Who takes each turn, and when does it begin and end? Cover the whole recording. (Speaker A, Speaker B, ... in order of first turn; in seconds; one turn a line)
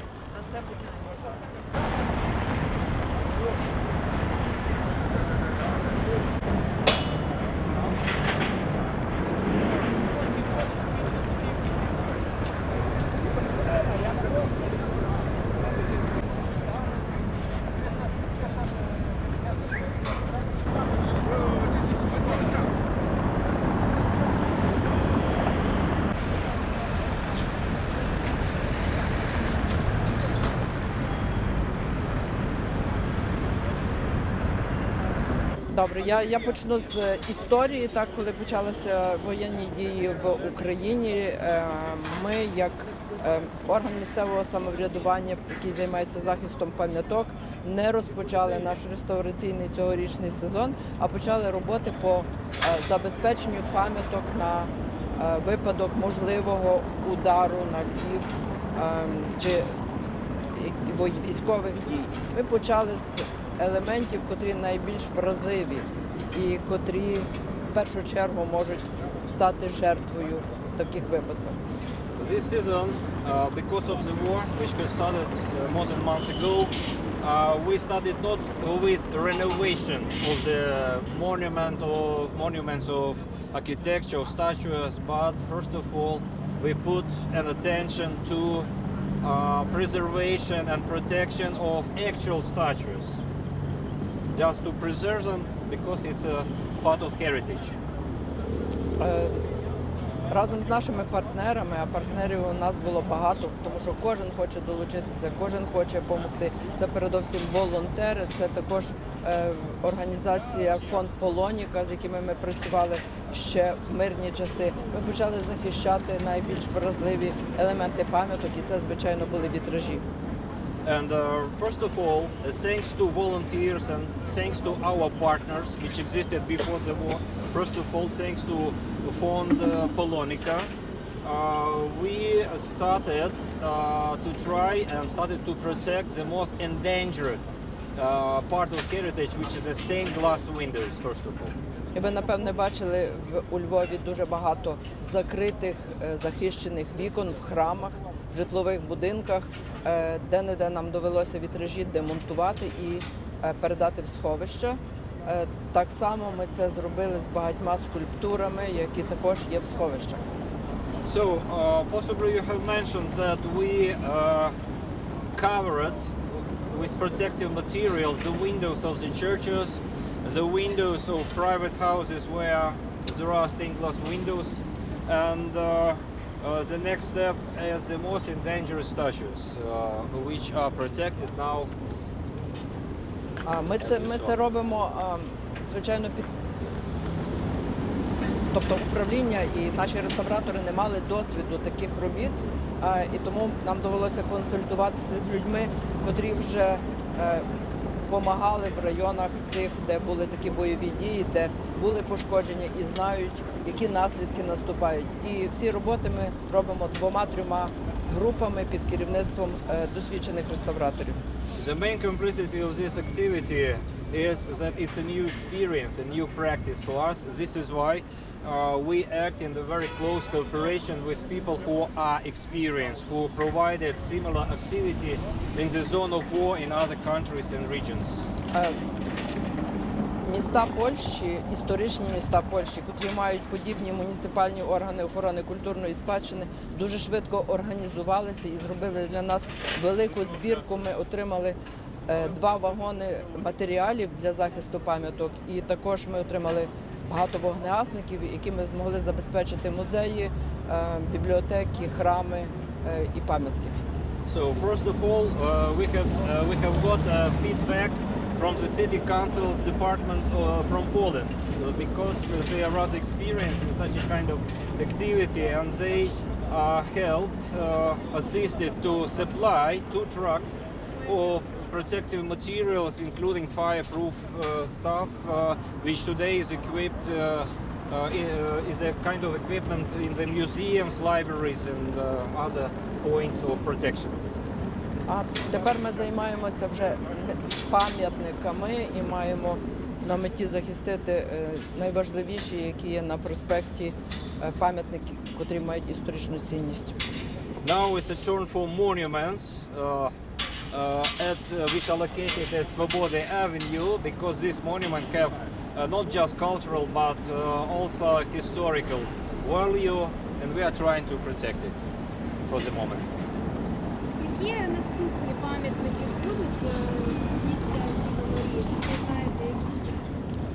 Speaker A: 0.3-1.6
Speaker A: 35.7-59.7
Speaker A: 60.5-71.6
Speaker B: 72.2-88.7
Speaker B: 89.2-93.2
Speaker B: 94.3-97.8
Speaker A: 99.0-99.5
Speaker A: 100.3-120.0
Speaker B: 120.8-130.7
Speaker B: 131.2-141.5
Speaker A: 141.9-160.2
Speaker B: 161.0-164.6
Speaker B: 165.3-166.2
Speaker B: 166.7-181.7
Speaker A: 183.4-186.3
Speaker B: 183.8-184.3
Speaker A: 188.5-197.4
Speaker A: 198.1-211.2
Speaker B: 211.5-228.3
Speaker A: 228.5-228.8
Speaker A: 230.2-253.8
Speaker B: 254.2-284.2
Speaker A: 285.1-296.9
Speaker B: 297.6-300.1
Speaker B: 300.7-311.8
Speaker B: 312.5-313.2
Speaker C: 314.2-320.1